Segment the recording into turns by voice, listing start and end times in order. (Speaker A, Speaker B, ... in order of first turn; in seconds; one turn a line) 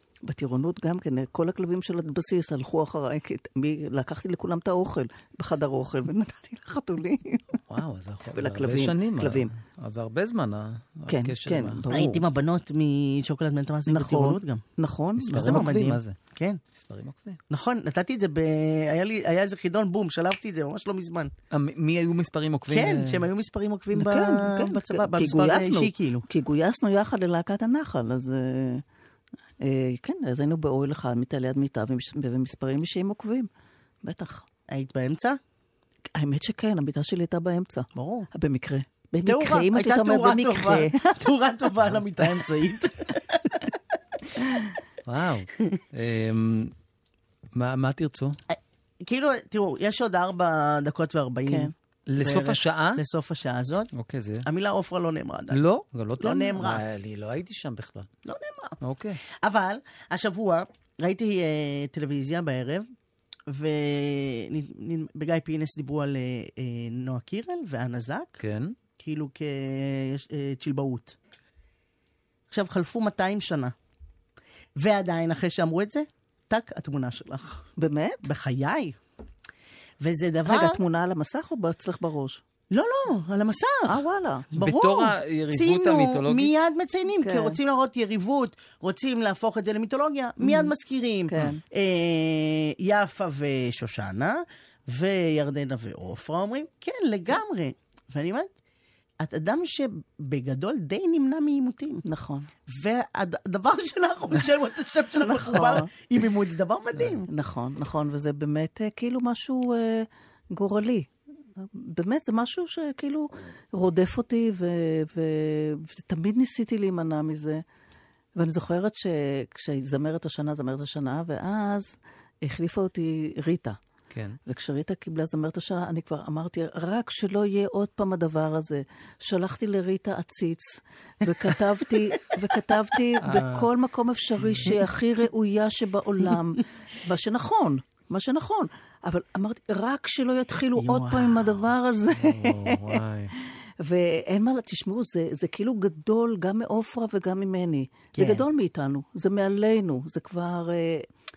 Speaker A: 0.2-7.4
Speaker B: 7.7-11.8
Speaker A: 8.3-9.5
Speaker A: 11.1-12.2
Speaker C: 11.9-14.6
Speaker A: 13.9-15.8
Speaker B: 15.2-16.1
Speaker C: 15.3-16.6
Speaker B: 16.7-17.4
Speaker C: 17.5-21.3
Speaker B: 21.5-23.3
Speaker C: 22.7-26.2
Speaker A: 23.9-28.8
Speaker A: 29.6-33.5
Speaker A: 34.0-34.5
Speaker C: 34.7-35.4
Speaker A: 36.1-41.3
Speaker C: 37.9-38.3
Speaker C: 39.2-43.6
Speaker B: 45.0-46.7
Speaker B: 47.5-48.4
Speaker C: 48.5-53.9
Speaker A: 51.5-51.7
Speaker B: 52.1-53.0
Speaker B: 53.9-54.5
Speaker C: 54.4-55.6
Speaker B: 55.5-58.1
Speaker C: 56.2-56.8
Speaker C: 58.2-58.8
Speaker B: 58.8-59.2
Speaker C: 59.4-62.9
Speaker C: 63.5-68.4
Speaker B: 68.4-68.7
Speaker C: 69.0-71.1
Speaker C: 72.5-73.7
Speaker C: 74.8-77.6
Speaker A: 77.8-78.2
Speaker C: 78.2-79.0
Speaker C: 80.0-80.8
Speaker A: 80.4-82.4
Speaker C: 82.7-84.0
Speaker A: 83.9-84.5
Speaker C: 84.5-98.5
Speaker B: 84.6-86.5
Speaker A: 87.2-87.6
Speaker A: 90.4-90.7
Speaker A: 91.3-91.6
Speaker C: 99.2-102.0
Speaker A: 102.0-102.5
Speaker C: 102.7-107.3
Speaker A: 105.2-105.9
Speaker A: 107.3-117.6
Speaker A: 118.3-123.8
Speaker B: 124.1-124.4
Speaker A: 124.5-151.1
Speaker C: 133.3-133.6
Speaker C: 140.8-141.6
Speaker B: 142.2-143.3
Speaker C: 148.1-148.4